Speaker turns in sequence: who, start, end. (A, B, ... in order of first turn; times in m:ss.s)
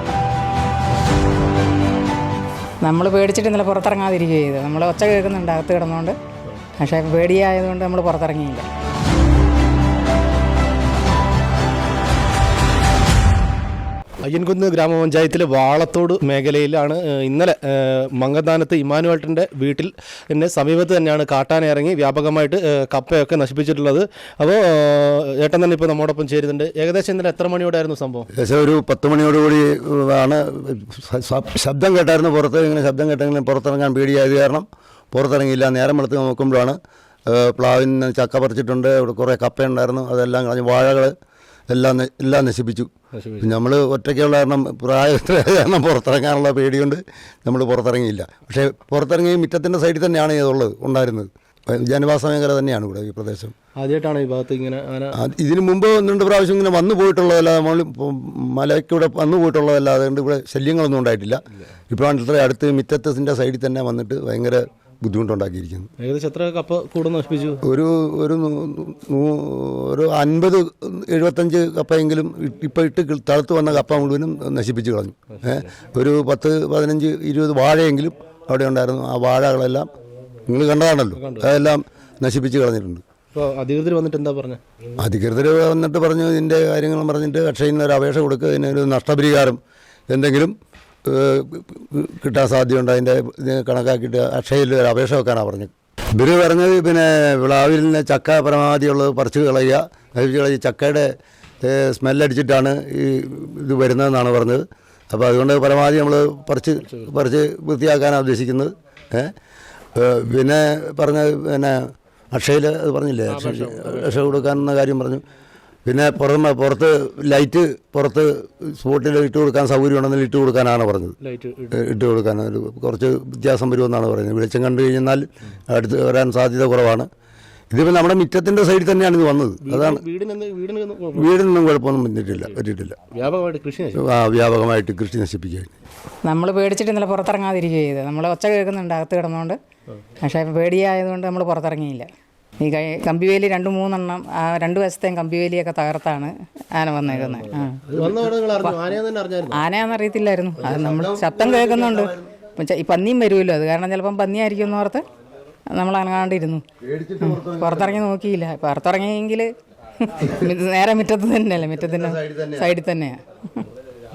0:02.8-0:06.2 A
0:06.8-0:08.6 A
0:14.2-0:28.3 B
0:28.3-0:41.2 C
0:41.7-0:53.5 C
0:43.1-0:43.5 B
0:53.8-0:55.2 B
0:55.1-1:05.9 C
1:06.0-1:07.6 B
1:07.6-1:19.9 C
1:15.4-1:15.6 B
1:20.4-1:23.0 C
1:21.2-1:21.5 B
1:23.3-1:24.6 B
1:25.0-1:49.3 C
1:49.9-1:55.2 C
1:53.3-1:54.5 B
1:55.8-2:01.2 C
2:01.2-2:01.8 B
2:01.7-2:07.1 C
2:07.7-2:10.0 C
2:09.6-2:11.3 B
2:11.1-2:13.0 C
2:13.1-2:14.0 B
2:13.9-2:15.7 C
2:16.2-2:19.6 A
2:20.2-2:22.1 A
2:22.6-2:27.8 A
2:27.1-2:29.6 B
2:29.5-2:35.0 A
2:30.6-2:32.3 C
2:35.7-2:36.6 A
2:36.8-2:38.0 C
2:37.2-2:43.6 A
2:41.8-2:42.7 C